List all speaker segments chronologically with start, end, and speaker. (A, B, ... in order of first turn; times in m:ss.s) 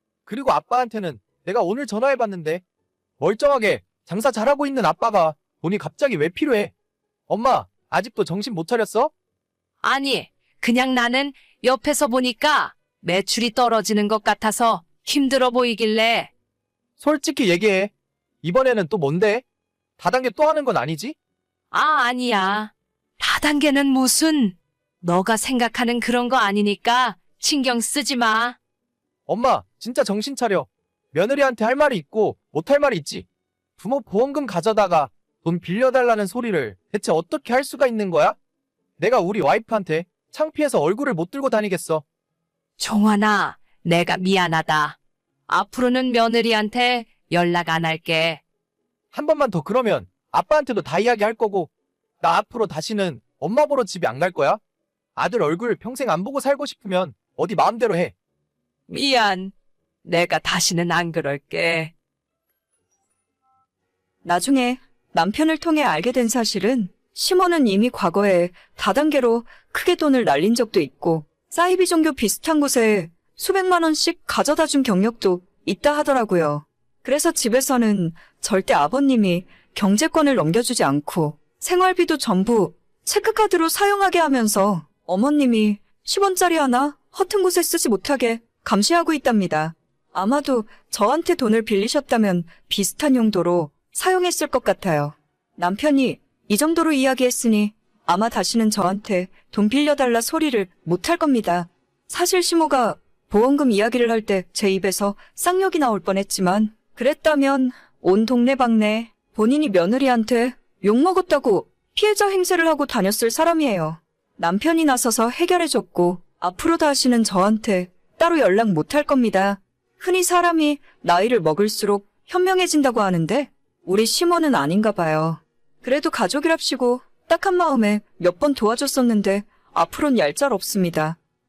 0:00.3-0:02.6 A
0:03.2-0:06.7 A
0:07.3-0:09.1 A
0:09.8-0:16.3 B
0:17.0-0:17.9 A
0:18.4-0:19.4 A
0:20.0-0:21.2 A
0:21.7-0:28.6 B
0:29.3-0:33.2 A
0:33.8-0:38.4 A
0:39.0-0:42.0 A
0:42.8-0:45.0 B
0:45.5-0:48.4 B
0:49.1-0:54.6 A
0:55.2-0:58.1 A
0:58.9-0:59.5 B
1:00.0-1:01.9 B
1:04.2-2:11.2 C